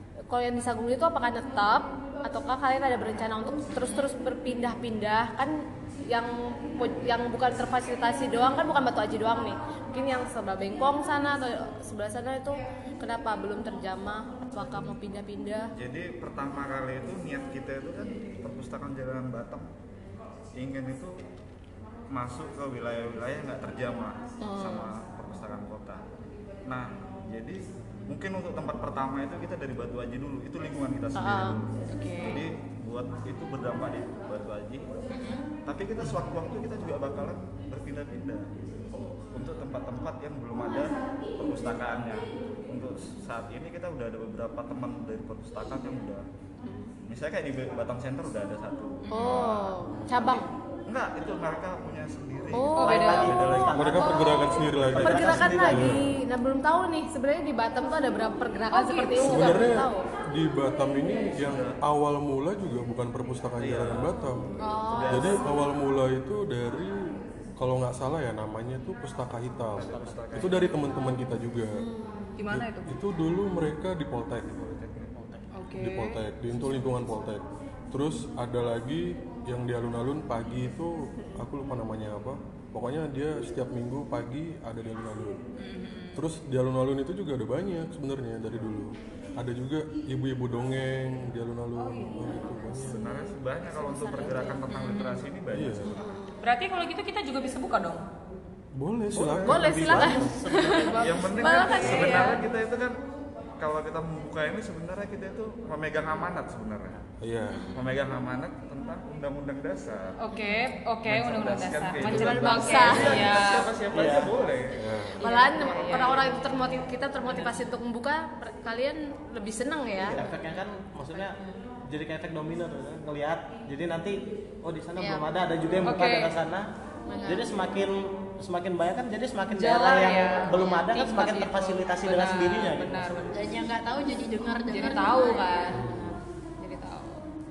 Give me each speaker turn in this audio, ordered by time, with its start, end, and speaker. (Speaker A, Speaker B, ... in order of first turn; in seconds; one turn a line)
Speaker A: 0.3-15.7
Speaker B: 15.8-19.7
Speaker B: 20.6-21.3
Speaker B: 22.1-26.1
Speaker A: 24.4-24.9
Speaker B: 26.7-35.1
Speaker A: 31.1-31.6
Speaker C: 31.9-32.5
Speaker C: 35.1-35.5
Speaker B: 35.6-38.7
Speaker B: 39.3-46.2
Speaker A: 46.6-47.0
Speaker B: 47.1-54.9
Speaker C: 49.0-49.5
Speaker A: 49.1-50.5
Speaker D: 49.9-50.4
Speaker A: 52.5-53.1
Speaker C: 52.8-53.5
Speaker E: 52.8-56.0
Speaker D: 53.7-56.1
Speaker C: 54.2-54.6
Speaker A: 55.0-60.0
Speaker C: 58.7-59.7
Speaker D: 59.2-71.8
Speaker B: 61.3-61.8
Speaker B: 63.6-64.1
Speaker F: 64.6-65.5
Speaker B: 64.8-65.5
Speaker A: 64.9-65.3
Speaker B: 69.8-71.0
Speaker E: 69.8-70.2
Speaker A: 71.8-72.1
Speaker C: 72.4-72.9
Speaker D: 72.5-74.7
Speaker B: 74.5-75.1
Speaker E: 75.1-75.5
Speaker C: 75.5-76.2
Speaker D: 75.8-85.4
Speaker C: 85.6-86.2
Speaker D: 86.1-93.0
Speaker C: 91.8-92.3
Speaker A: 92.7-94.7
Speaker B: 92.8-96.2
Speaker C: 94.7-95.3
Speaker D: 95.5-96.0
Speaker A: 96.0-96.3
Speaker C: 96.4-98.0
Speaker D: 98.8-100.4
Speaker E: 99.1-101.6
Speaker A: 99.5-102.4
Speaker B: 100.9-103.0
Speaker D: 101.8-102.3
Speaker B: 103.6-107.0
Speaker D: 107.2-107.8
Speaker C: 107.5-107.9
Speaker B: 107.7-110.2
Speaker C: 110.2-113.7
Speaker B: 111.1-115.0
Speaker A: 112.2-113.2
Speaker E: 113.8-114.4
Speaker D: 114.7-115.2
Speaker A: 115.2-120.2
Speaker F: 115.2-115.7
Speaker C: 115.2-117.7
Speaker E: 120.0-126.7
Speaker F: 125.0-125.3
Speaker C: 125.8-126.4
Speaker F: 127.1-127.8
Speaker E: 127.2-133.3
Speaker C: 129.5-133.7
Speaker F: 133.3-135.5
Speaker C: 134.7-137.3
Speaker D: 135.7-136.2